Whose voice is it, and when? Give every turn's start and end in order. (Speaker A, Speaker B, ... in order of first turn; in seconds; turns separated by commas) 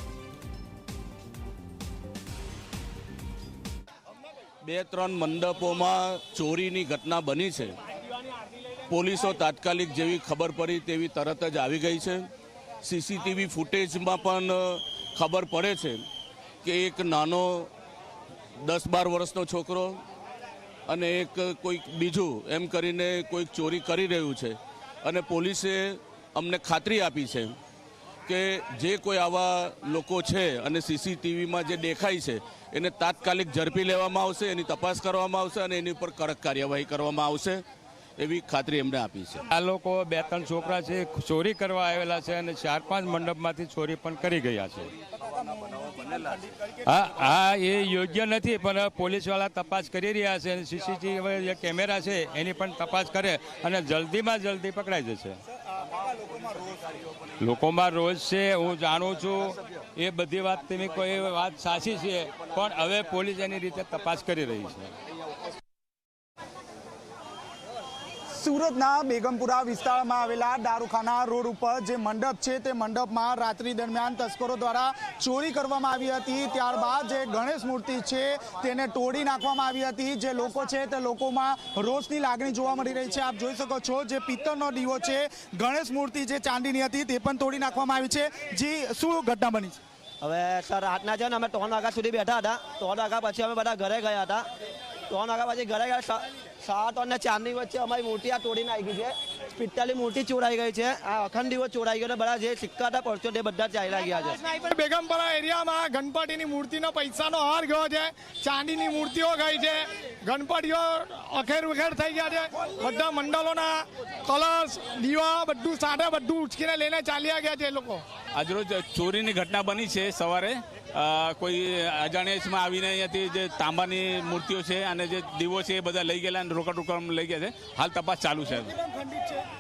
Speaker A: 4.6-7.8, Speaker A: 8.9-12.3, Speaker A: 12.8-16.1, Speaker A: 16.6-17.7, Speaker A: 18.6-20.0, Speaker A: 20.9-27.6, Speaker A: 28.3-37.6, Speaker A: 38.2-39.5, Speaker B: 39.5-44.9, Speaker C: 45.2-46.7, Speaker B: 46.9-55.4, Speaker B: 57.4-64.9, Speaker C: 68.3-89.8, Speaker D: 90.2-94.5, Speaker D: 95.1-104.4, Speaker E: 104.5-118.0, Speaker F: 118.3-128.7, Speaker C: 128.6-129.4